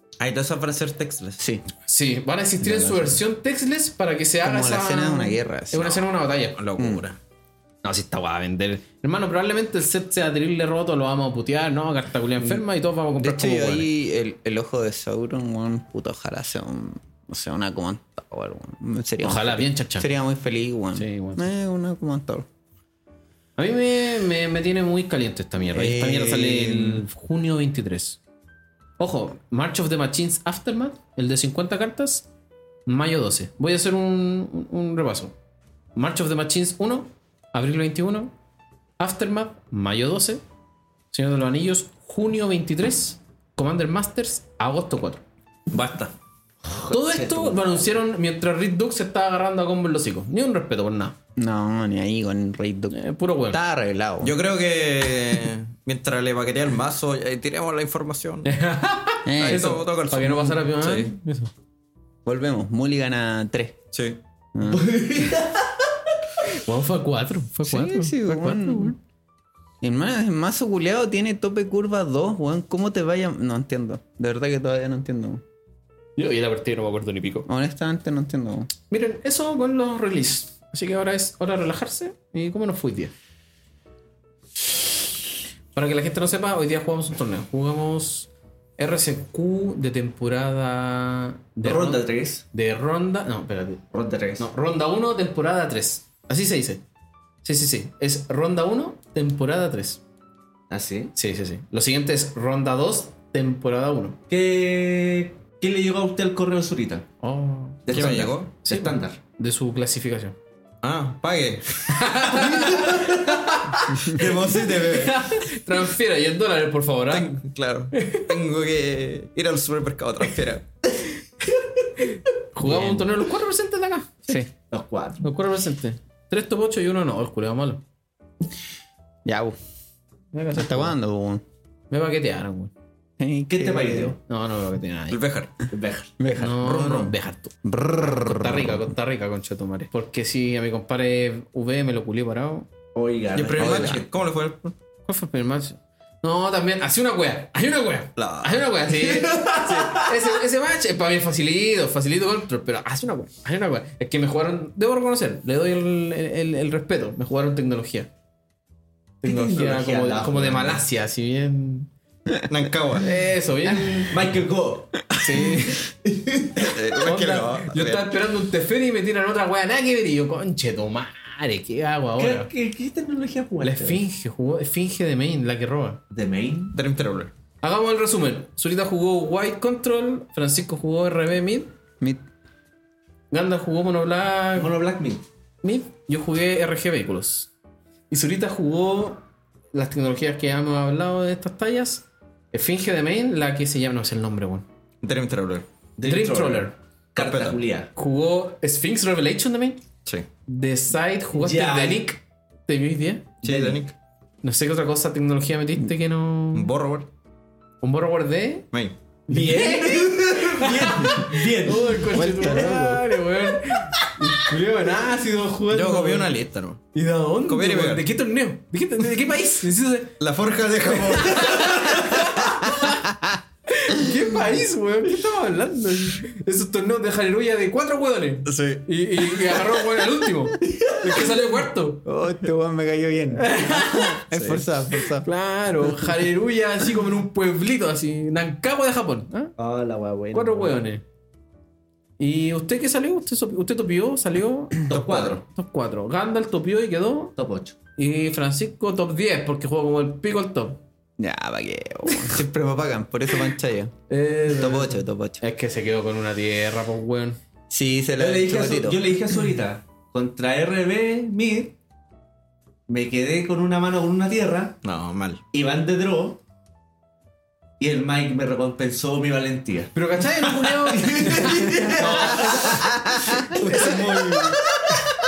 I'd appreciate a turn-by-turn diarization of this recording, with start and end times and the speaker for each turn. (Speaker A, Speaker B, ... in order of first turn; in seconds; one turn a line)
Speaker A: 0.2-1.4
Speaker B: 1.4-1.6
Speaker C: 1.9-6.6
Speaker B: 2.6-3.2
Speaker B: 4.4-6.0
Speaker A: 6.6-7.2
Speaker B: 6.8-7.0
Speaker C: 7.8-13.9
Speaker B: 13.2-22.5
Speaker C: 19.2-20.1
Speaker C: 20.9-21.5
Speaker C: 23.6-28.2
Speaker B: 25.7-27.1
Speaker C: 29.0-32.3
Speaker C: 32.9-35.3
Speaker C: 36.0-38.3
Speaker C: 39.0-40.4
Speaker C: 41.1-45.2
Speaker A: 45.7-46.1
Speaker D: 46.6-47.8
Speaker C: 46.9-51.2
Speaker B: 51.4-53.0
Speaker C: 52.9-53.6
Speaker B: 53.5-54.4
Speaker A: 54.2-58.5
Speaker C: 58.4-61.5
Speaker B: 59.3-59.8
Speaker A: 59.4-61.1
Speaker B: 62.2-63.8
Speaker A: 63.9-64.2
Speaker B: 64.5-64.9
Speaker D: 64.7-65.9
Speaker C: 66.5-69.0
Speaker B: 67.6-69.0
Speaker B: 69.8-75.4
Speaker C: 76.2-77.5
Speaker B: 77.5-78.7
Speaker C: 78.9-83.1
Speaker C: 85.7-93.8
Speaker D: 91.6-92.4
Speaker D: 93.9-94.5
Speaker C: 94.4-96.8
Speaker C: 97.4-100.0
Speaker D: 100.7-101.1
Speaker C: 101.2-104.2
Speaker D: 104.3-107.1
Speaker C: 107.2-108.1
Speaker D: 107.9-109.2
Speaker A: 107.9-108.5
Speaker C: 108.7-110.3
Speaker A: 110.8-115.5
Speaker C: 111.9-118.3
Speaker A: 117.1-120.7
Speaker C: 122.0-124.5
Speaker B: 122.6-123.1
Speaker D: 124.7-125.2
Speaker C: 125.2-127.8
Speaker B: 129.2-129.6
Speaker C: 130.3-131.0
Speaker B: 130.5-131.4
Speaker C: 131.9-132.7
Speaker B: 133.2-134.2
Speaker D: 133.5-134.2
Speaker C: 134.3-135.2
Speaker A: 135.1-135.6
Speaker D: 135.7-136.1
Speaker B: 136.2-137.0
Speaker C: 136.4-142.7
Speaker A: 136.6-137.1
Speaker B: 137.6-138.9
Speaker D: 142.9-144.1
Speaker A: 143.3-144.8
Speaker B: 143.6-144.0
Speaker C: 145.1-158.1
Speaker A: 148.2-149.5
Speaker C: 159.2-161.9
Speaker D: 159.2-160.8
Speaker A: 162.5-163.1
Speaker C: 163.0-164.2
Speaker B: 163.7-164.0
Speaker D: 164.1-165.1
Speaker C: 165.1-165.9
Speaker D: 166.0-166.7
Speaker A: 166.6-168.1
Speaker C: 167.0-172.5
Speaker D: 172.2-174.0
Speaker C: 173.6-176.0
Speaker D: 176.1-176.8
Speaker A: 176.7-177.3
Speaker C: 177.6-181.7
Speaker C: 183.3-184.7
Speaker D: 184.6-185.2
Speaker C: 185.6-187.5
Speaker C: 188.1-189.2
Speaker C: 189.7-194.7
Speaker A: 195.0-195.7
Speaker D: 196.0-197.9
Speaker C: 196.1-196.7
Speaker A: 197.2-197.6
Speaker C: 197.9-199.8
Speaker C: 200.5-203.3
Speaker D: 201.3-202.1
Speaker A: 203.4-203.9
Speaker D: 203.4-203.8
Speaker C: 204.4-206.7
Speaker A: 206.5-207.1
Speaker C: 207.8-208.7
Speaker C: 209.3-216.3
Speaker D: 209.3-212.1
Speaker B: 212.1-213.2
Speaker A: 215.7-216.8
Speaker C: 216.9-220.2
Speaker A: 217.5-218.1
Speaker A: 220.2-222.5
Speaker C: 220.9-223.1
Speaker B: 222.7-223.4
Speaker C: 223.7-232.0
Speaker A: 228.5-229.7
Speaker B: 232.1-235.3
Speaker C: 233.4-234.3
Speaker A: 234.3-234.6
Speaker C: 235.0-239.5
Speaker D: 239.6-240.8
Speaker C: 240.3-241.0
Speaker C: 242.2-247.3
Speaker D: 244.9-245.4
Speaker D: 247.4-247.8
Speaker C: 248.0-250.8
Speaker B: 251.2-253.9
Speaker C: 254.1-257.4
Speaker B: 254.5-255.4
Speaker B: 257.7-259.0
Speaker D: 258.2-261.8
Speaker D: 262.9-264.8
Speaker A: 264.8-265.4
Speaker D: 265.5-266.4
Speaker D: 267.8-272.8
Speaker C: 269.9-274.6
Speaker B: 272.1-273.8
Speaker D: 273.4-275.1